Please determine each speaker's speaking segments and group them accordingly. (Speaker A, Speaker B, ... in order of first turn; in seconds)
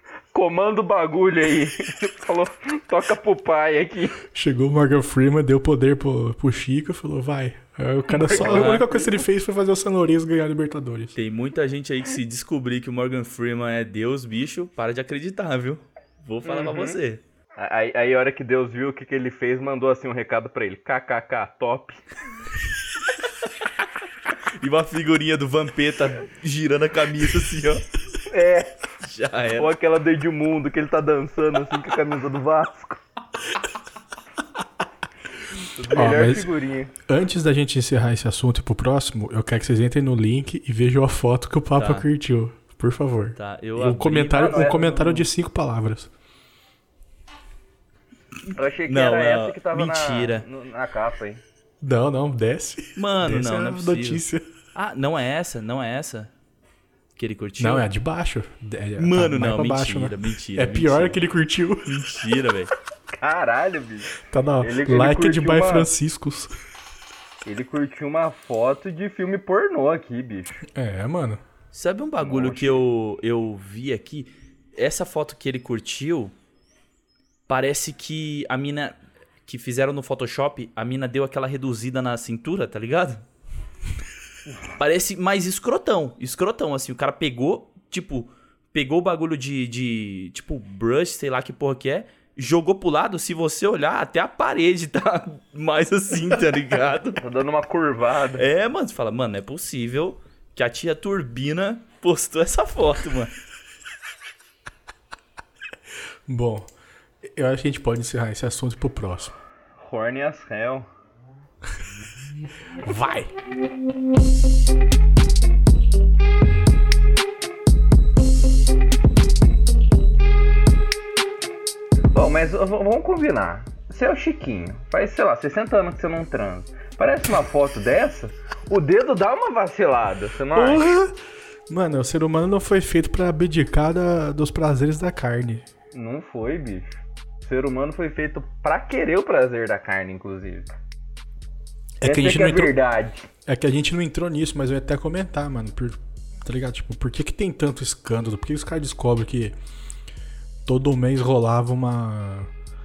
Speaker A: 0.3-4.2, 8.1-9.2, 16.4-17.0, 17.6-22.0, 28.3-28.7, 29.6-33.0, 35.8-36.9, 44.3-45.1, 48.5-51.4, 63.2-65.9, 67.5-70.6, 72.2-72.8, 97.2-98.4, 109.8-110.9, 122.1-130.9, 135.9-140.7, 142.0-143.3
Speaker B: 4.3-11.2, 35.9-36.5, 37.1-46.1, 51.8-54.5, 57.6-62.0, 64.2-66.5, 70.6-71.4, 106.3-106.7, 107.2-109.3, 112.8-113.3, 130.5-131.2, 131.7-135.7, 142.0-142.7, 143.5-149.6, 150.7-152.5
Speaker C: 8.4-8.9, 11.2-17.2, 24.6-27.8, 29.0-29.7, 41.8-42.1, 43.4-45.2, 48.9-50.5, 53.0-54.2, 54.8-56.3, 57.2-57.9, 59.0-61.2, 61.9-62.7, 71.7-76.3, 77.5-83.2, 84.8-97.2, 98.4-103.3